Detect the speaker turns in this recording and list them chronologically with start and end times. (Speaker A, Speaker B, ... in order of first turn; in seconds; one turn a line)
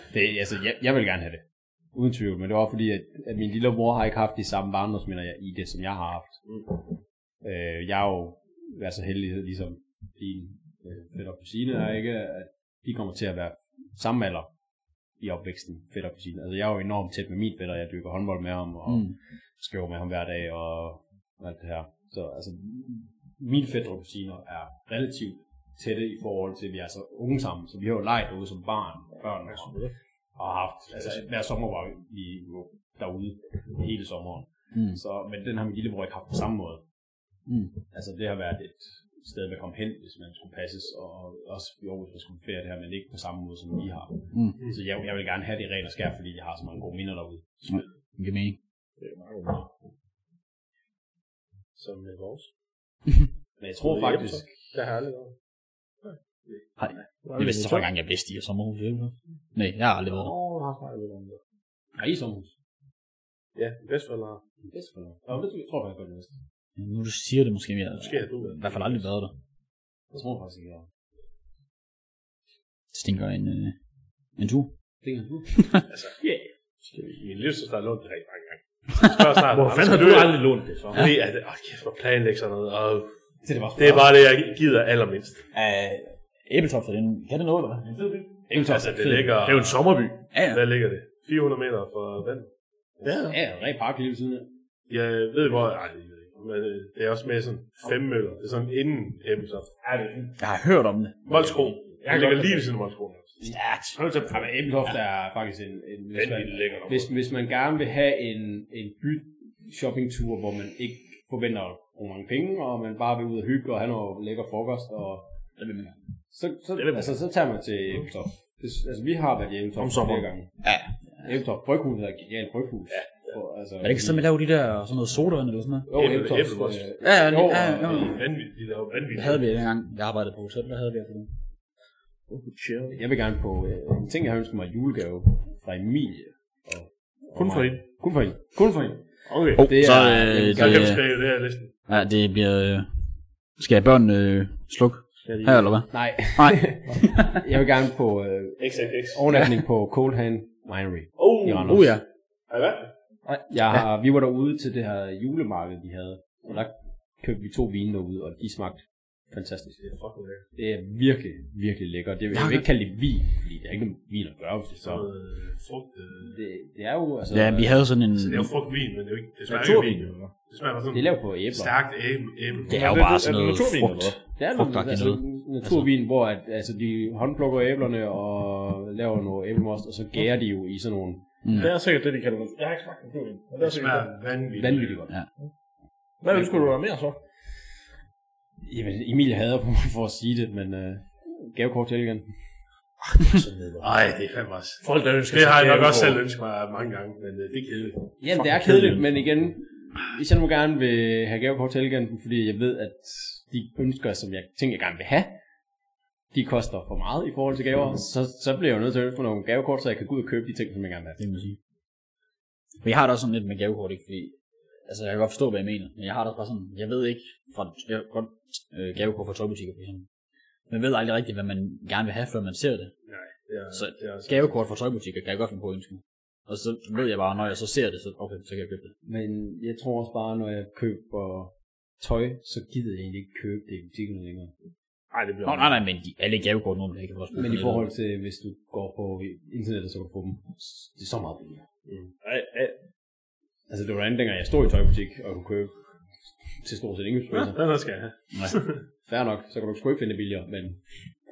Speaker A: 0.1-6.4
Speaker A: 7.4-14.5
Speaker A: 15.2-29.8
Speaker B: 18.9-19.1
Speaker C: 29.5-29.9
Speaker A: 30.4-36.8
Speaker B: 34.7-35.0
Speaker B: 37.5-37.7
Speaker A: 37.9-47.9
Speaker B: 47.7-48.6
Speaker C: 49.0-49.7
Speaker C: 51.8-52.5
Speaker A: 53.6-54.7
Speaker C: 53.8-55.3
Speaker B: 56.8-60.3
Speaker C: 57.2-57.9
Speaker C: 60.1-61.4
Speaker A: 62.0-62.5
Speaker C: 63.6-64.4
Speaker A: 64.7-66.3
Speaker B: 66.8-69.3
Speaker D: 68.0-69.0
Speaker A: 70.1-70.9
Speaker B: 72.9-73.8
Speaker B: 74.4-74.7
Speaker A: 75.0-75.5
Speaker B: 75.5-75.8
Speaker D: 75.9-76.2
Speaker C: 76.2-77.1
Speaker D: 77.0-83.1
Speaker C: 79.5-81.1
Speaker A: 83.5-84.1
Speaker D: 83.8-85.5
Speaker B: 85.5-87.9
Speaker A: 88.5-89.2
Speaker D: 88.5-89.8
Speaker C: 89.3-90.2
Speaker B: 90.3-90.6
Speaker D: 90.4-92.5
Speaker C: 93.0-93.3
Speaker A: 93.1-94.5
Speaker D: 94.9-99.8
Speaker C: 99.8-100.3
Speaker B: 100.4-101.5
Speaker D: 101.3-103.5
Speaker C: 102.0-102.7
Speaker B: 103.4-104.0
Speaker C: 104.0-104.4
Speaker A: 104.3-115.2
Speaker C: 106.2-107.0
Speaker B: 115.6-116.0
Speaker A: 116.3-120.5
Speaker C: 116.8-117.1
Speaker C: 119.8-120.2
Speaker B: 120.6-121.0
Speaker A: 121.2-124.2
Speaker B: 123.8-125.9
Speaker A: 125.9-128.1
Speaker D: 126.0-126.8
Speaker B: 127.0-128.2
Speaker D: 127.9-129.4
Speaker B: 129.1-131.3
Speaker C: 132.3-133.0
Speaker A: 132.9-141.0
Speaker C: 137.3-137.8
Speaker C: 139.3-139.6
Speaker B: 139.6-141.2
Speaker D: 140.5-141.7
Speaker B: 141.9-142.9
Speaker B: 143.6-147.4
Speaker C: 145.2-145.8
Speaker A: 145.9-152.0
Speaker D: 148.6-149.2
Speaker C: 151.2-151.6
Speaker D: 151.4-151.9
Speaker B: 151.6-152.0
Speaker D: 152.5-152.9
Speaker A: 153.5-159.9
Speaker D: 159.8-160.4
Speaker A: 160.6-165.1
Speaker B: 162.3-162.7
Speaker D: 164.8-166.4
Speaker A: 166.2-167.8
Speaker B: 167.3-168.5
Speaker D: 168.2-172.9
Speaker C: 169.5-170.3
Speaker A: 170.9-171.8
Speaker B: 172.7-175.9
Speaker C: 172.7-174.2
Speaker A: 174.4-181.3
Speaker B: 181.4-181.7
Speaker C: 181.5-184.1
Speaker D: 183.6-185.0
Speaker A: 184.6-185.2
Speaker C: 186.2-187.2
Speaker A: 186.3-186.7
Speaker A: 188.6-192.3
Speaker C: 193.0-193.9
Speaker D: 193.8-198.1
Speaker C: 194.8-196.2
Speaker A: 198.2-205.3
Speaker B: 198.4-199.0
Speaker A: 206.3-211.2
Speaker B: 211.2-211.6
Speaker B: 212.8-214.3
Speaker B: 214.9-220.1
Speaker B: 220.7-222.9
Speaker D: 223.1-224.6
Speaker B: 223.7-228.9
Speaker A: 229.0-234.5
Speaker C: 235.1-235.8
Speaker B: 235.4-237.9
Speaker A: 237.3-241.7
Speaker C: 242.2-242.8
Speaker A: 243.7-245.7
Speaker A: 246.6-247.6
Speaker D: 247.4-248.8
Speaker A: 249.1-250.8